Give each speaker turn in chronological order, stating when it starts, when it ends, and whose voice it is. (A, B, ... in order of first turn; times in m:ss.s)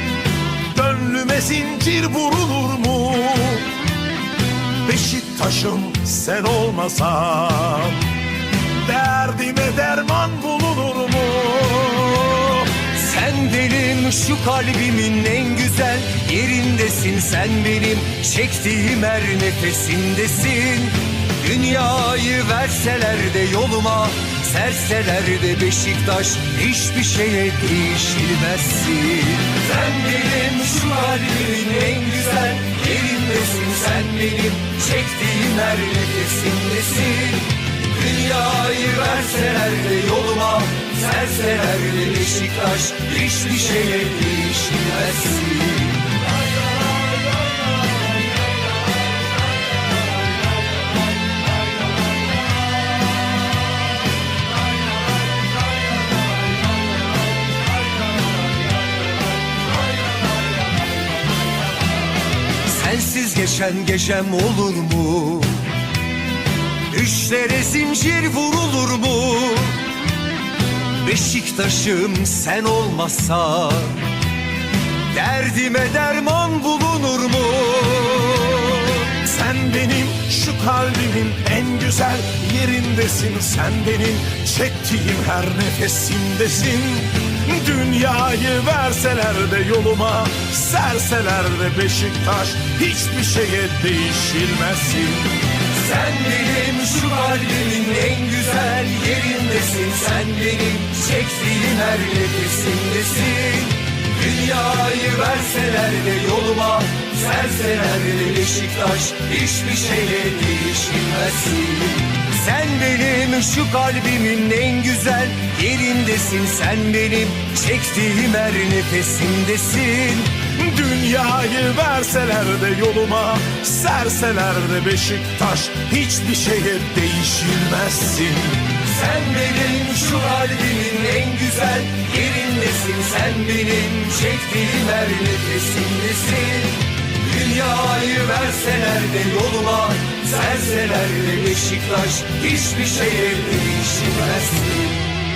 0:00.7-0:03.7 A
0:04.8-0:08.1 A
0:08.8-0:12.5 A
0:12.4-0:46.3 B
1:02.6-1:05.8 B
1:06.9-1:09.9 B
1:11.0-1:14.1 B
1:15.1-1:19.1 B
1:19.2-1:35.4 A
1:35.6-2:00.4 B
2:00.6-2:08.7 A
2:08.8-2:25.0 B